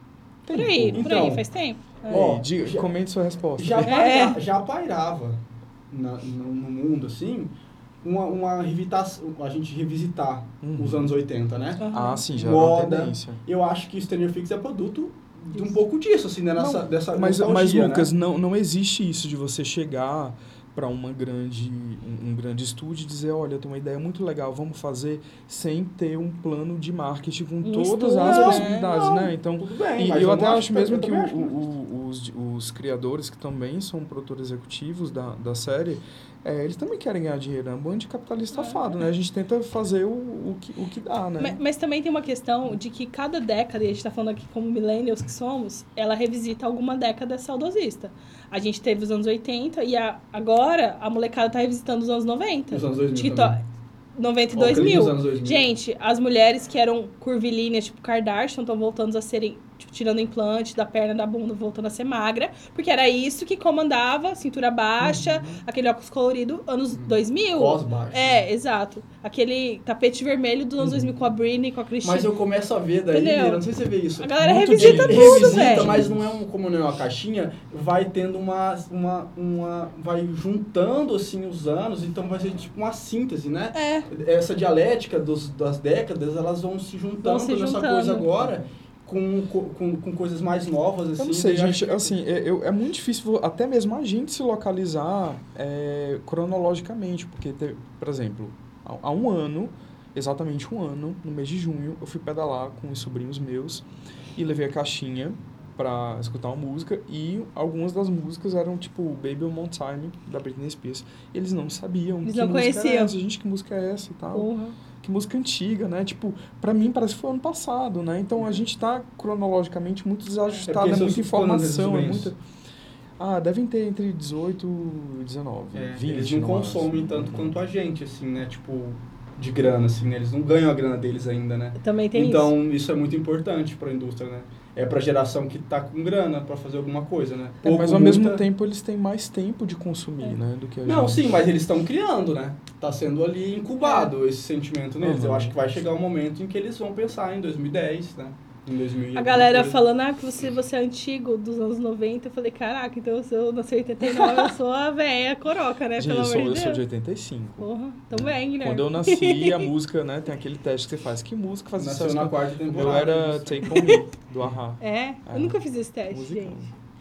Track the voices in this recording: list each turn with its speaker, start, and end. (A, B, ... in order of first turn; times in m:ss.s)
0:00.5-0:01.1 A
0:00.5-0:02.2 B
0:00.9-0:01.4 C
0:02.1-0:02.9 C
0:02.1-0:04.0 A
0:03.6-0:11.8 C
0:03.8-0:04.4 B
0:10.6-0:11.1 A
0:11.8-0:12.2 B
0:11.9-0:13.4 A
0:12.3-0:18.1 C
0:16.6-0:16.8 B
0:17.1-0:41.6 A
0:27.6-0:28.9 B
0:28.2-0:31.6 C
0:38.5-0:38.9 B
0:41.4-0:53.6 B
0:52.7-0:53.6 C
0:54.2-1:12.3 B
0:54.6-0:55.7 C
1:05.0-1:05.6 A
1:06.9-1:08.4 C
1:12.0-1:32.1 C
1:13.1-1:13.6 B
1:14.2-1:16.0 B
1:14.4-1:16.4 A
1:23.7-1:24.1 B
1:27.2-1:28.3 B
1:31.2-2:02.4 A
1:52.2-1:53.2 B
1:54.3-1:54.8 B
1:58.4-1:58.6 C
2:00.7-2:02.3 C
2:03.2-2:07.6 A
2:05.8-2:18.4 C
2:11.8-2:12.5 B
2:17.6-2:21.2 A
2:20.8-2:29.8 C
2:23.8-2:24.1 B
2:25.0-2:25.9 A
2:29.2-2:36.8 B
2:36.0-2:37.7 A
2:37.6-2:39.7 B
2:38.6-2:46.7 A
2:41.8-2:43.7 C
2:44.8-2:46.6 B